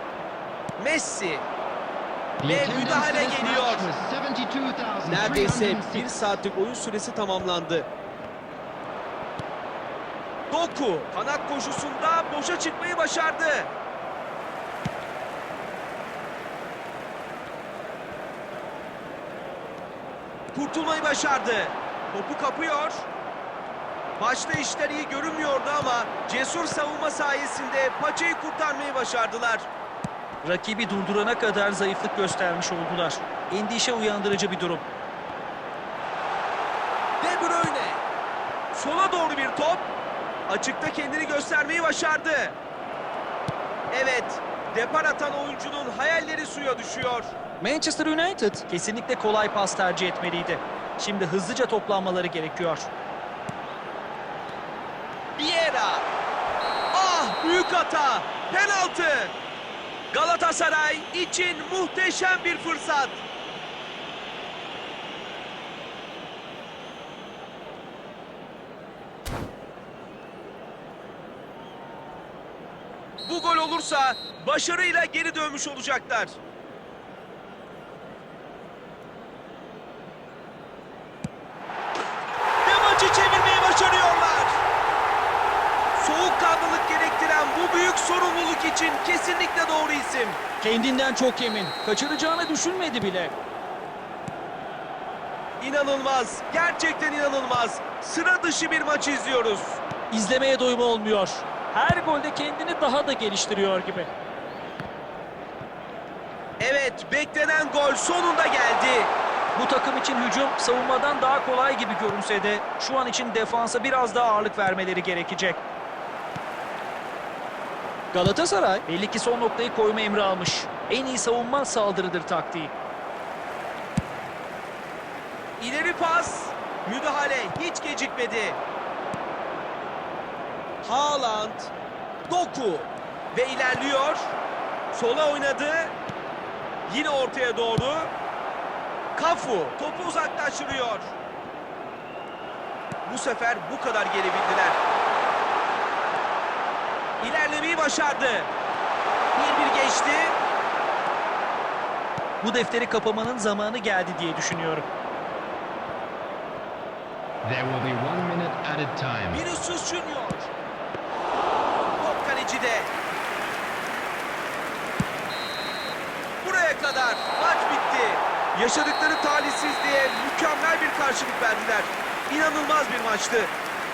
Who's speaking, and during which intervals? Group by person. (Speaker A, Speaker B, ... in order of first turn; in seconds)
Speaker A: 0.8-1.5, 2.5-3.9, 5.1-7.9, 10.5-13.7, 20.5-23.1, 24.2-29.7, 37.2-38.0, 38.7-39.9, 40.5-42.6, 43.9-47.3, 55.4-56.1, 56.9-59.3, 60.1-63.2, 73.2-76.4, 82.6-84.6, 86.0-90.4, 95.6-99.8, 106.6-109.1, 125.6-128.6, 130.8-131.7, 132.3-134.3, 134.9-135.9, 136.9-138.1, 139.2-141.1, 143.1-144.8, 147.2-148.5, 149.3-150.4, 159.3-160.5, 162.0-162.9, 166.4-173.5
Speaker B: 2.4-6.3, 157.4-159.5
Speaker C: 30.4-34.9, 47.6-52.9, 90.6-93.3, 100.1-104.1, 109.6-115.6, 118.1-122.7, 152.4-154.9